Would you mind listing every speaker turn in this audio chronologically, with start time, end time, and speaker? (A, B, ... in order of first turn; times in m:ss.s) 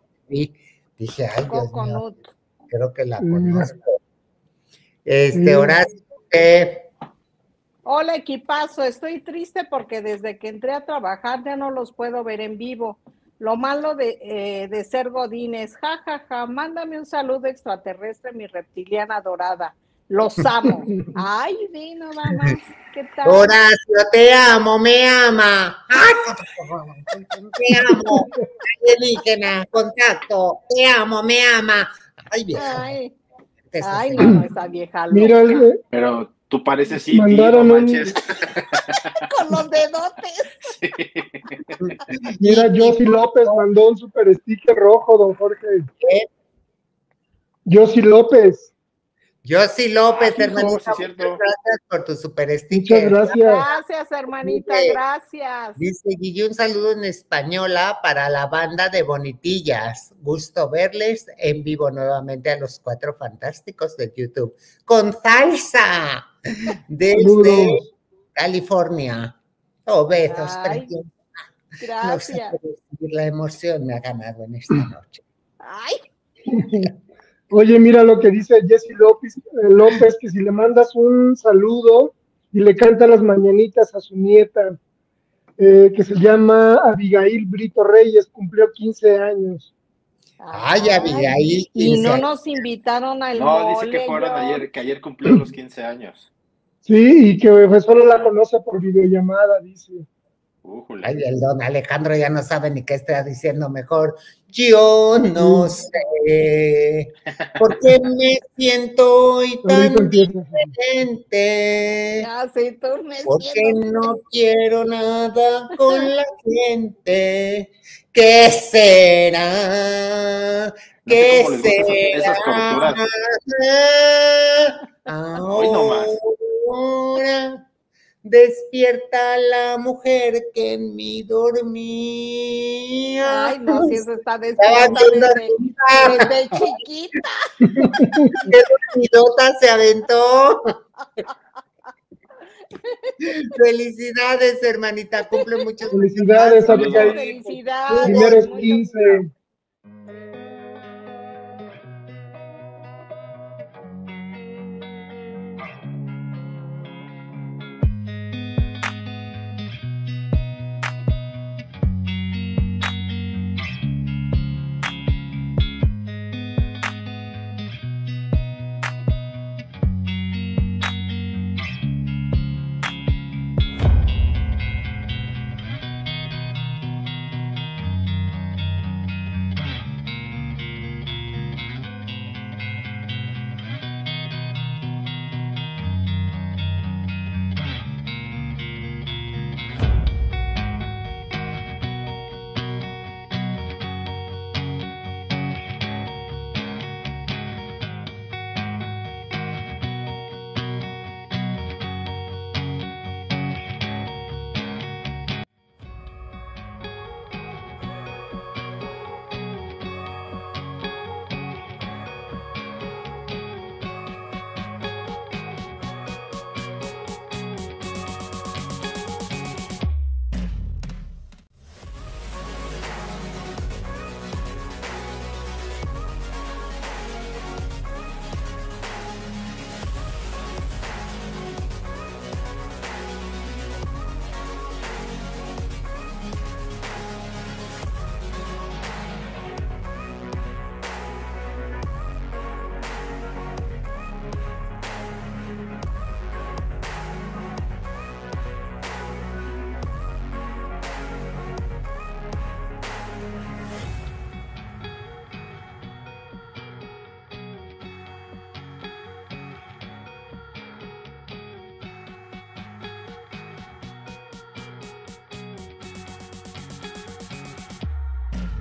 0:00.3-0:02.0 A
0:01.5-0:02.3 B
0:02.7-0:04.0 A
0:03.2-0:03.7 C
0:05.1-0:06.9 A
0:05.3-0:05.8 C
0:07.9-0:23.6 B
0:23.2-0:32.9 A
0:27.8-0:28.3 C
0:32.6-0:33.2 B
0:33.7-0:34.4 A
0:33.8-0:35.6 B
0:35.1-0:35.8 C
0:35.9-0:39.2 D
0:37.1-0:38.1 C
0:39.3-0:40.7 B
0:40.6-0:41.8 D
0:41.8-0:43.1 A
0:42.4-0:45.9 C
0:46.0-0:46.3 A
0:47.6-0:48.7 C
0:49.4-0:53.7 A
0:50.1-0:51.4 D
0:52.7-0:53.6 C
0:53.3-0:55.8 B
0:54.4-0:55.0 A
0:55.8-1:06.3 A
1:06.9-1:07.8 A
1:07.1-1:07.8 C
1:08.4-1:11.1 A
1:10.3-1:10.9 B
1:11.8-1:12.6 B
1:12.0-1:15.2 A
1:15.6-1:16.0 B
1:16.5-1:16.9 C
1:16.5-1:16.9 A
1:17.5-1:24.8 C
1:25.6-1:29.7 C
1:30.4-1:34.6 B
1:30.5-1:32.6 A
1:33.4-1:36.3 D
1:36.8-1:40.1 C
1:40.6-1:41.2 D
1:41.0-1:52.3 A
1:45.4-1:45.7 C
1:49.6-1:50.7 C
1:52.2-1:54.1 B
1:53.3-2:07.6 A
2:01.1-2:03.0 D
2:05.5-2:06.2 D
2:08.2-2:14.0 A
2:13.2-2:18.5 B
2:14.6-2:16.7 A
2:17.6-2:18.4 C
2:17.9-2:20.7 A
2:22.8-2:23.1 B
2:23.2-2:27.1 A
2:25.9-2:27.2 C
2:26.6-2:27.2 D
2:26.8-2:29.2 B
2:27.9-2:28.5 A
2:27.9-2:29.3 C